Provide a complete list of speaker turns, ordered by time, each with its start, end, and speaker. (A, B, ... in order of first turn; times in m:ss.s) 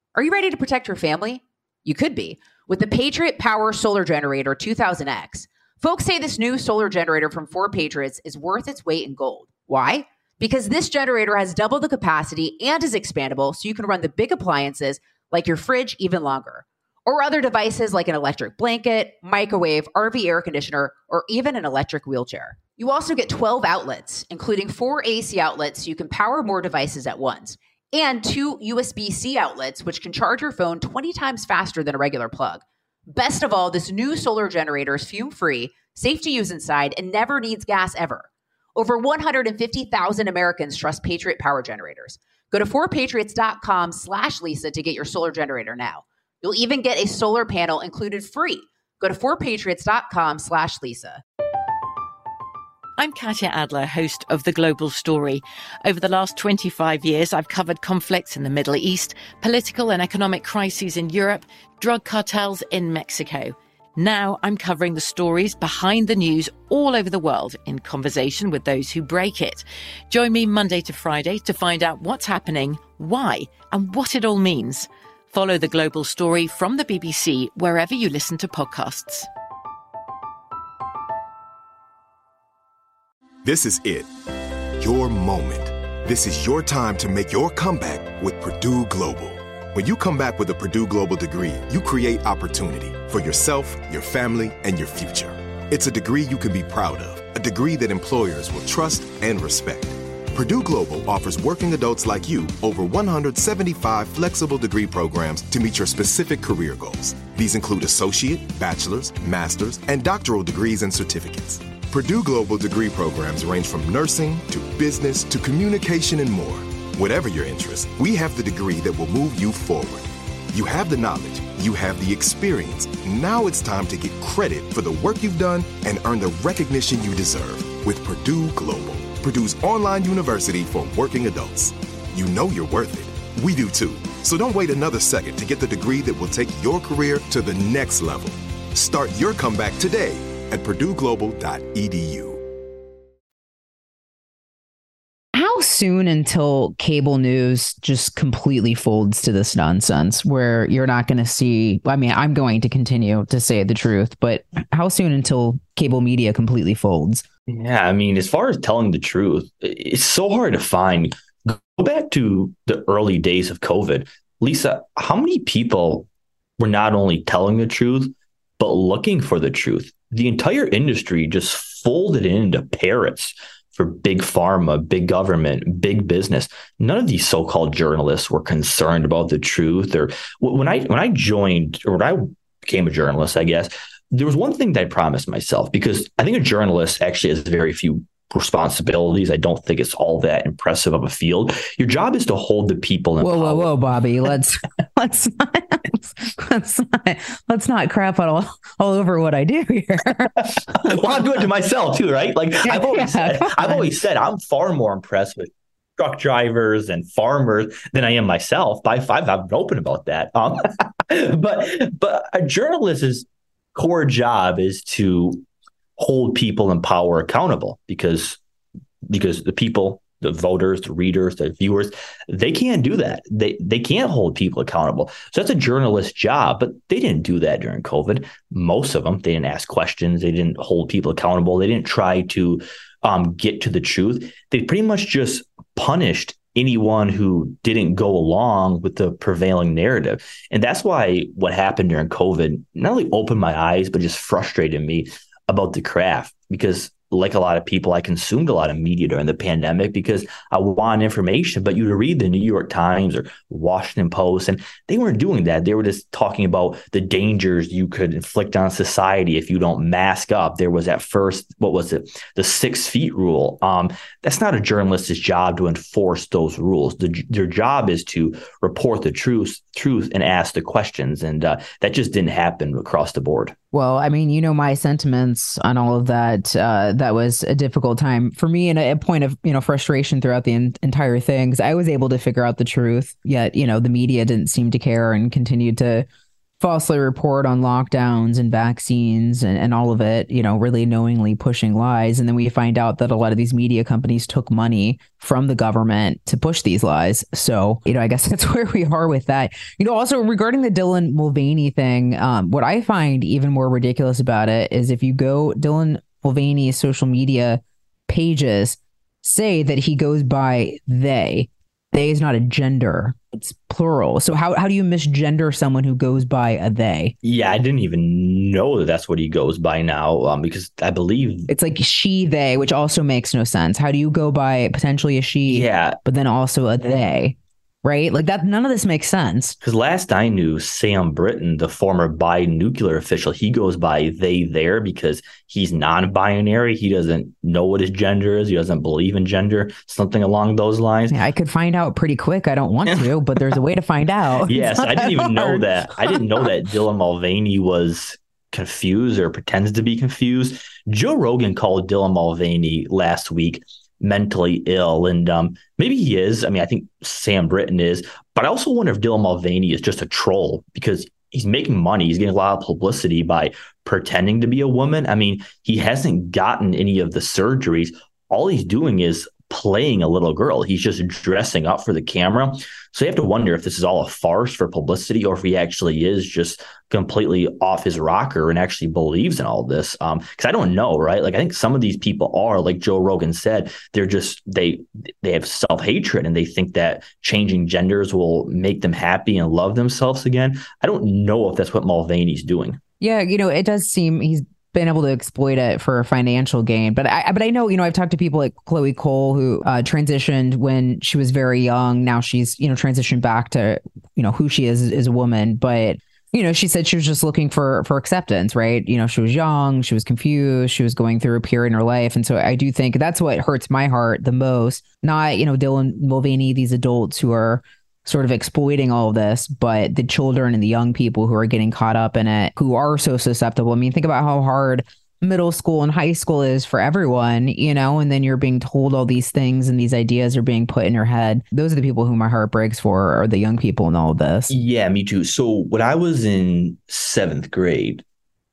0:00.1-0:51.2 A
0:53.0-1:19.3 B
1:23.4-1:24.1 C
1:24.8-2:22.4 C
2:25.3-2:37.2 D
2:37.5-2:46.1 E
2:46.6-3:13.7 E
3:13.2-3:21.1 D
3:20.8-3:35.4 E
3:22.6-3:23.9 D
3:36.0-3:38.4 E
3:39.0-4:33.5 E
4:33.7-4:46.0 D
4:46.6-5:17.1 D
5:17.2-5:21.5 E
5:21.5-5:29.5 D
5:25.5-5:26.0 E
5:29.6-5:41.2 E
5:41.1-5:46.2 D
5:42.9-5:43.6 E
5:44.4-6:32.8 E
6:33.0-7:14.5 D
7:14.5-7:18.0 E